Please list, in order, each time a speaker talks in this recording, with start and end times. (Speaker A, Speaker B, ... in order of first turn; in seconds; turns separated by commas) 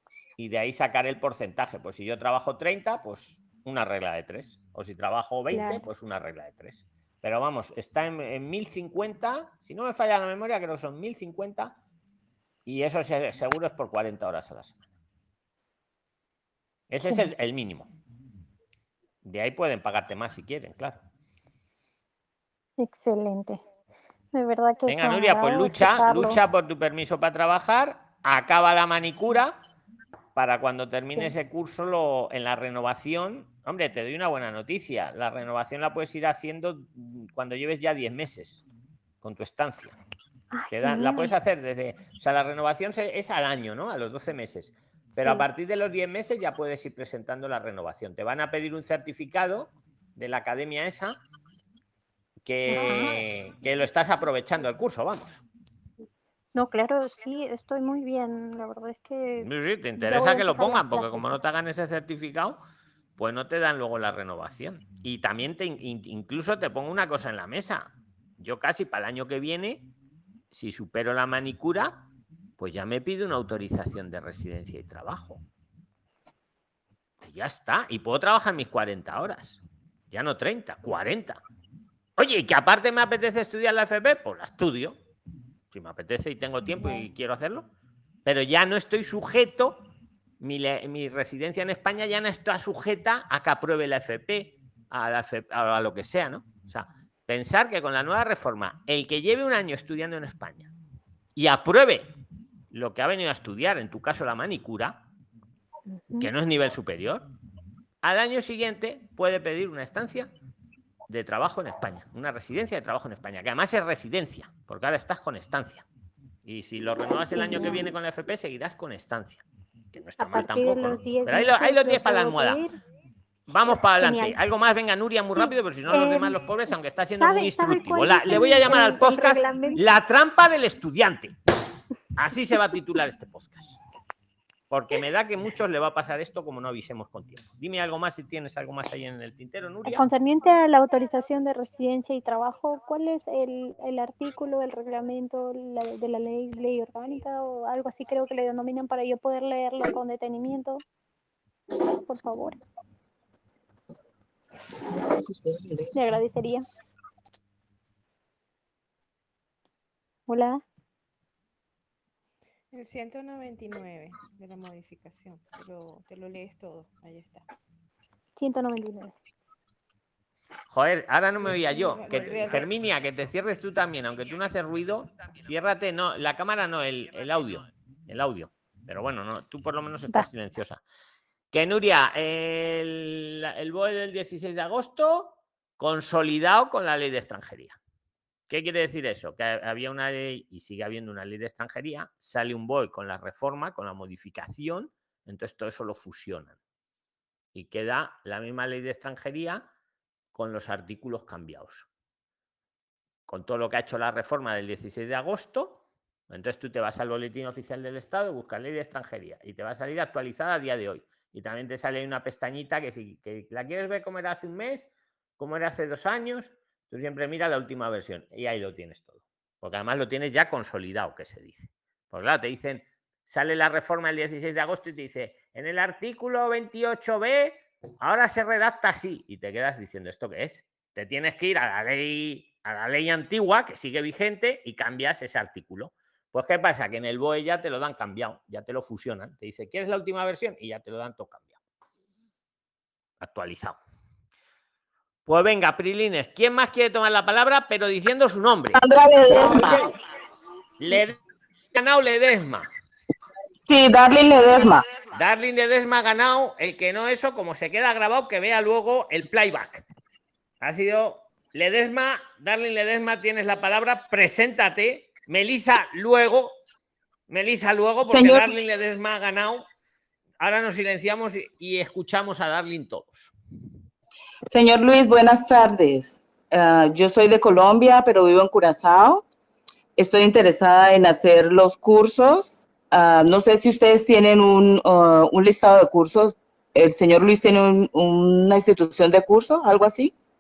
Speaker A: 0.4-11.8, Speaker B: 5.5-5.8, Speaker A: 12.7-14.8, Speaker A: 16.9-17.9, Speaker A: 19.2-21.0, Speaker B: 22.8-23.6, Speaker B: 24.3-26.4, Speaker A: 24.9-29.6, Speaker A: 30.4-38.6, Speaker A: 39.2-40.0, Speaker B: 40.5-41.3, Speaker A: 40.7-51.2, Speaker B: 45.2-45.5, Speaker A: 52.5-55.4, Speaker B: 52.7-53.2, Speaker B: 56.5-59.5, Speaker A: 59.4-62.6, Speaker B: 60.0-61.3, Speaker A: 63.2-69.8, Speaker A: 70.5-72.0, Speaker A: 72.6-75.4, Speaker A: 77.2-81.4, Speaker A: 82.2-85.0, Speaker A: 85.7-87.7, Speaker A: 88.2-89.8, Speaker A: 90.4-100.7, Speaker A: 101.4-102.1, Speaker A: 102.7-105.0, Speaker B: 106.0-106.3, Speaker A: 106.2-107.2, Speaker A: 108.0-110.3, Speaker A: 111.1-115.8, Speaker A: 116.5-119.4, Speaker B: 117.4-117.9, Speaker A: 119.9-122.6, Speaker B: 120.2-122.7, Speaker A: 123.5-131.3, Speaker B: 123.8-124.4, Speaker B: 125.4-126.4, Speaker B: 127.2-129.8, Speaker A: 132.2-133.8, Speaker A: 134.7-140.1, Speaker B: 139.8-150.8, Speaker B: 152.1-152.6, Speaker C: 155.1-155.9, Speaker B: 155.9-156.7, Speaker B: 160.3-160.6, Speaker D: 162.7-167.4, Speaker B: 168.4-169.1, Speaker A: 170.7-180.8, Speaker D: 171.4-172.7, Speaker A: 181.5-187.8, Speaker A: 188.5-196.6, Speaker A: 197.5-199.7, Speaker A: 200.3-201.9, Speaker A: 203.3-241.5, Speaker A: 243.2-243.8, Speaker A: 245.3-250.0, Speaker C: 248.8-249.9, Speaker A: 250.8-251.2, Speaker A: 251.7-252.7, Speaker C: 253.7-254.9, Speaker A: 255.1-259.9, Speaker A: 260.6-266.5, Speaker A: 267.3-269.6, Speaker C: 268.1-268.6, Speaker A: 270.4-273.3, Speaker C: 274.5-279.2, Speaker C: 280.0-290.1